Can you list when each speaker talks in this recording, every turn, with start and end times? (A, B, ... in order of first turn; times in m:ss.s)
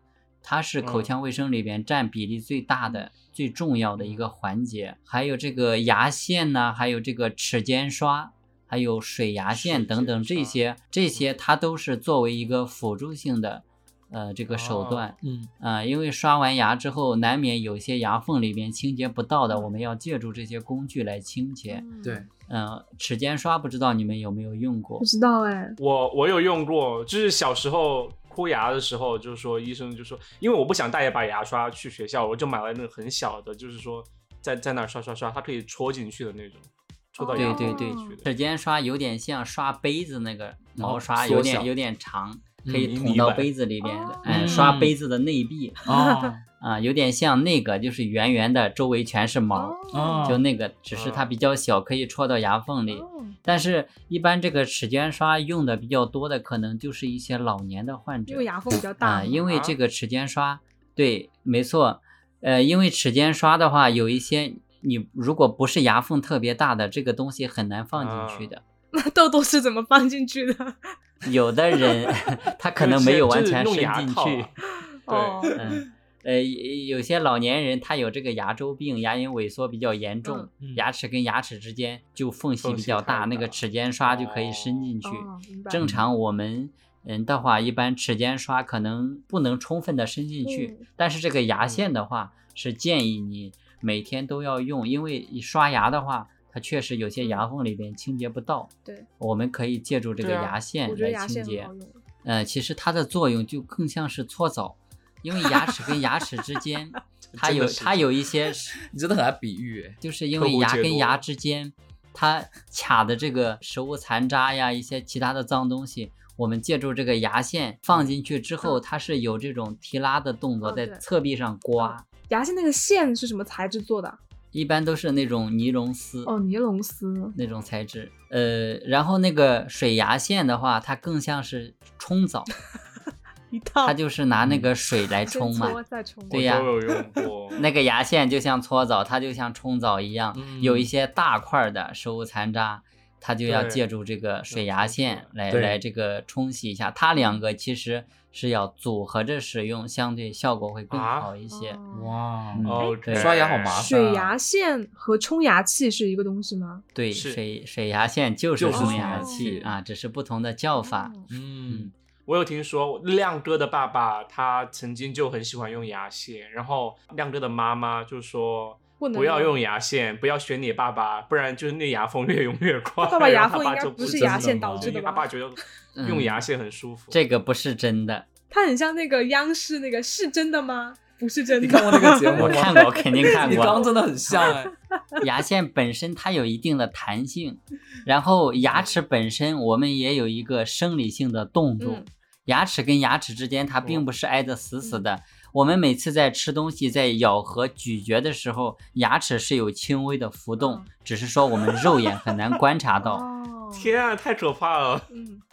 0:00.4-0:21.8 A
0:00.8-0:01.1 B
0:04.0-0:04.3 B
0:09.5-0:10.6 B
0:14.5-0:15.1 B
0:15.2-0:15.5 C
0:21.7-0:22.2 D
0:22.5-0:25.1 A
0:25.0-0:25.8 D
0:25.8-0:38.3 B
0:37.2-0:38.2 D
0:37.4-0:45.9 A
0:40.8-0:41.7 C
0:42.6-0:42.9 C
0:42.7-0:43.5 B
0:43.8-0:44.8 D
0:44.2-0:44.9 C
0:45.9-0:46.4 C
0:45.9-0:46.4 D
0:46.6-1:08.6 A
0:49.5-0:50.4 D
0:49.9-0:50.4 C
0:50.9-0:51.4 B
0:52.9-0:53.4 D
0:58.3-0:59.4 D
0:59.4-0:59.8 B
1:08.0-1:08.5 B
1:08.9-1:11.0 D
1:11.2-1:14.5 A
1:12.8-1:14.6 B
1:15.0-1:15.6 D
1:15.1-1:15.5 B
1:15.5-1:41.7 A
1:20.6-1:20.9 C
1:22.6-1:24.9 B
1:25.0-1:25.8 D
1:25.8-1:26.1 C
1:30.4-1:30.9 D
1:31.6-1:31.9 B
1:37.2-1:37.5 D
1:40.2-1:40.6 B
1:40.8-1:42.0 D
1:42.2-1:48.8 A
1:47.3-1:48.1 B
1:48.8-1:50.0 C
1:50.0-2:02.0 A
1:50.4-1:51.2 B
2:00.6-2:01.0 D
2:01.8-2:04.2 D
2:04.5-2:06.3 A
2:06.2-2:07.4 D
2:07.4-2:12.5 A
2:13.5-2:14.0 D
2:13.8-2:16.7 A
2:14.4-2:14.7 C
2:15.3-2:16.6 D
2:16.3-2:17.6 B
2:17.6-2:31.8 A
2:20.3-2:20.9 C
2:23.4-2:23.8 B
2:24.5-2:25.3 B
2:25.5-2:25.8 C
2:27.1-2:27.4 D
2:30.9-2:31.3 B
2:31.5-2:32.1 D
2:31.9-2:34.3 C
2:32.5-2:33.4 A
2:32.6-2:33.9 B
2:33.7-2:36.8 D
2:36.9-2:41.1 A
2:37.1-2:37.4 B
2:38.6-2:39.6 C
2:38.7-2:39.8 D
2:40.8-2:41.3 D
2:41.3-2:41.9 C
2:42.3-2:57.2 B
2:49.0-2:49.6 D
2:53.0-2:55.3 D
2:54.0-2:54.9 C
2:56.0-2:56.4 A
2:57.1-2:58.3 A
2:58.5-3:03.8 D
3:01.6-3:04.7 C
3:02.4-3:04.5 A
3:05.2-3:23.2 A
3:08.6-3:09.0 B
3:11.8-3:12.1 D
3:13.8-3:14.1 B
3:20.6-3:20.9 D
3:23.0-3:23.9 D
3:23.7-3:25.1 B
3:25.1-3:25.4 D